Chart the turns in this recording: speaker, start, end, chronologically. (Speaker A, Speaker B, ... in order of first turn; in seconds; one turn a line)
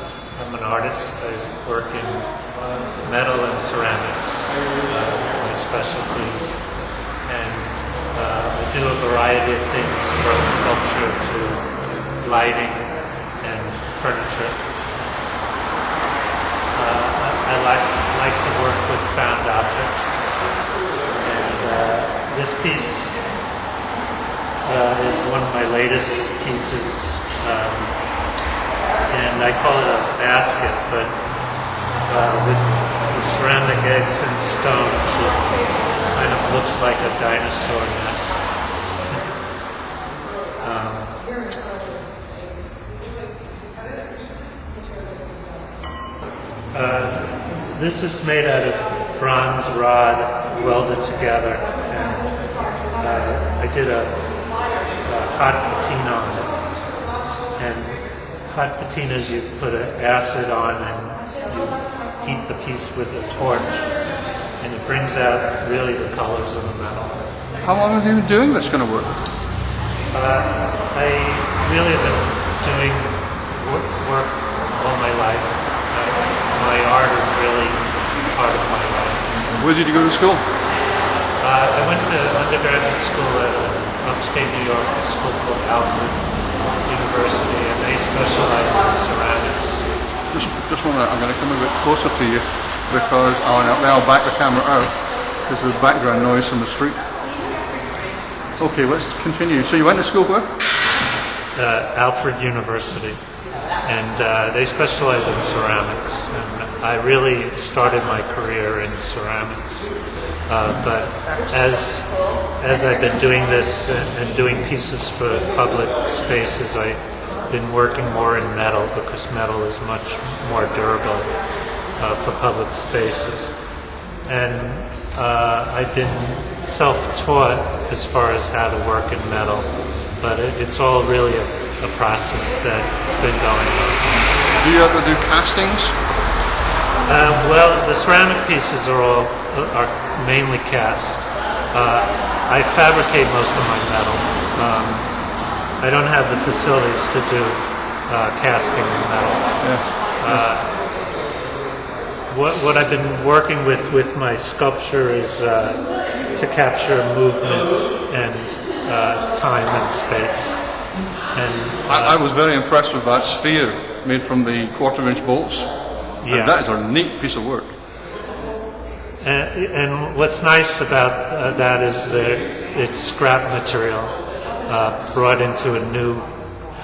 Speaker A: 0.3-2.3
Speaker A: 3.0-6.6
Speaker A: 7.2-14.6
Speaker A: 16.7-20.3
Speaker A: 21.2-23.2
Speaker A: 24.6-28.0
Speaker A: 29.1-31.2
Speaker A: 32.0-35.5
Speaker A: 36.0-38.4
Speaker A: 40.6-41.2
Speaker A: 46.7-52.4
Speaker A: 52.9-54.3
Speaker A: 55.0-56.5
Speaker A: 57.5-63.9
Speaker A: 64.6-67.2
Speaker B: 67.6-69.2
Speaker A: 70.1-79.6
Speaker B: 79.6-80.4
Speaker A: 81.4-86.3
Speaker A: 86.8-89.9
Speaker B: 90.3-97.0
Speaker B: 98.6-100.5
Speaker A: 101.5-103.2
Speaker A: 103.8-109.9
Speaker A: 110.4-121.4
Speaker A: 122.0-123.5
Speaker A: 124.2-134.2
Speaker B: 134.6-135.9
Speaker A: 137.0-145.1
Speaker A: 145.8-150.7
Speaker B: 149.6-150.4
Speaker A: 152.3-160.7
Speaker A: 161.3-162.2
Speaker B: 161.9-165.7
Speaker A: 166.2-166.6
Speaker B: 166.3-167.7
Speaker A: 169.2-176.3